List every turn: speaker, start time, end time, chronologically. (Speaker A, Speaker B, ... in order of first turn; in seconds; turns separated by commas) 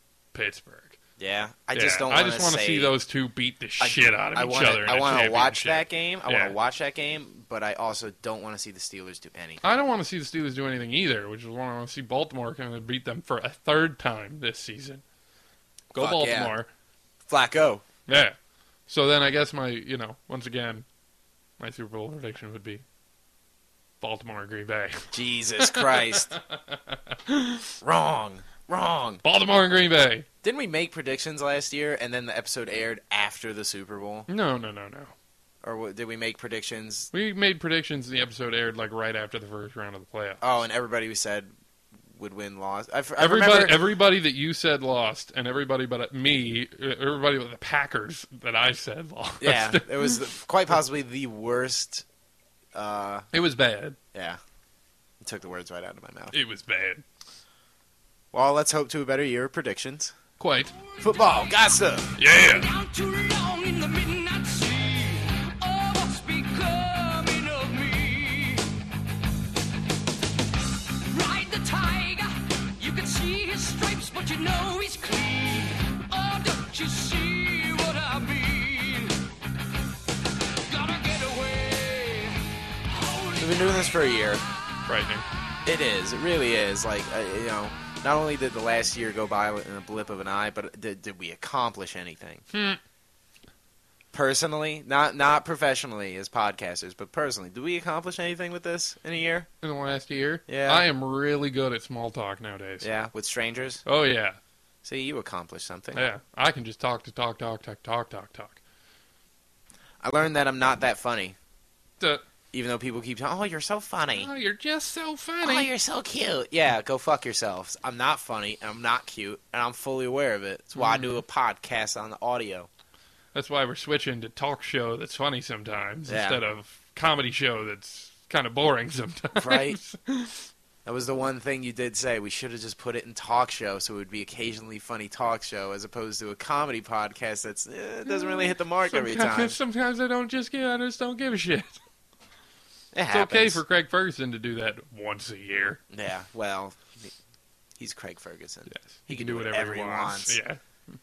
Speaker A: 0.3-1.0, Speaker B: 1.2-2.9, Speaker A: 1.7-6.5, Speaker B: 3.8-9.6, Speaker A: 9.6-15.0, Speaker A: 15.9-16.7, Speaker B: 15.9-16.5, Speaker B: 17.3-17.8, Speaker A: 18.1-18.4, Speaker A: 18.9-20.9, Speaker A: 21.6-22.8, Speaker A: 24.0-27.8, Speaker B: 25.1-26.3, Speaker B: 27.8-29.2, Speaker A: 29.2-30.3, Speaker B: 30.4-34.3, Speaker A: 34.3-35.1, Speaker B: 35.6-37.1, Speaker A: 37.1-40.4, Speaker B: 40.4-41.5, Speaker B: 42.1-43.8, Speaker A: 43.2-50.3, Speaker B: 49.4-52.0, Speaker B: 52.7-53.3, Speaker A: 53.3-54.0, Speaker B: 54.1-54.4, Speaker B: 55.2-56.4, Speaker A: 56.3-57.0, Speaker B: 58.3-60.1, Speaker A: 60.4-60.7, Speaker C: 60.9-61.7, Speaker B: 61.0-62.1, Speaker A: 62.2-62.7, Speaker C: 62.2-68.7, Speaker C: 71.1-79.2, Speaker C: 80.7-84.4, Speaker B: 83.4-84.4, Speaker A: 84.9-85.2, Speaker B: 85.7-92.5, Speaker A: 92.5-92.8, Speaker B: 94.1-99.5, Speaker A: 99.6-102.9, Speaker B: 100.5-100.9, Speaker B: 102.8-103.8, Speaker A: 103.8-104.4, Speaker B: 104.8-106.1, Speaker A: 105.9-108.6, Speaker B: 110.0-111.4, Speaker B: 112.5-114.3, Speaker A: 114.1-115.7, Speaker B: 115.4-122.7, Speaker A: 120.8-121.2, Speaker A: 123.3-130.5, Speaker B: 126.1-126.4, Speaker B: 129.4-129.8, Speaker B: 130.8-139.6, Speaker A: 138.1-141.8, Speaker B: 142.9-143.6, Speaker A: 143.1-145.8, Speaker B: 145.9-147.1, Speaker B: 147.8-150.4, Speaker A: 148.7-150.6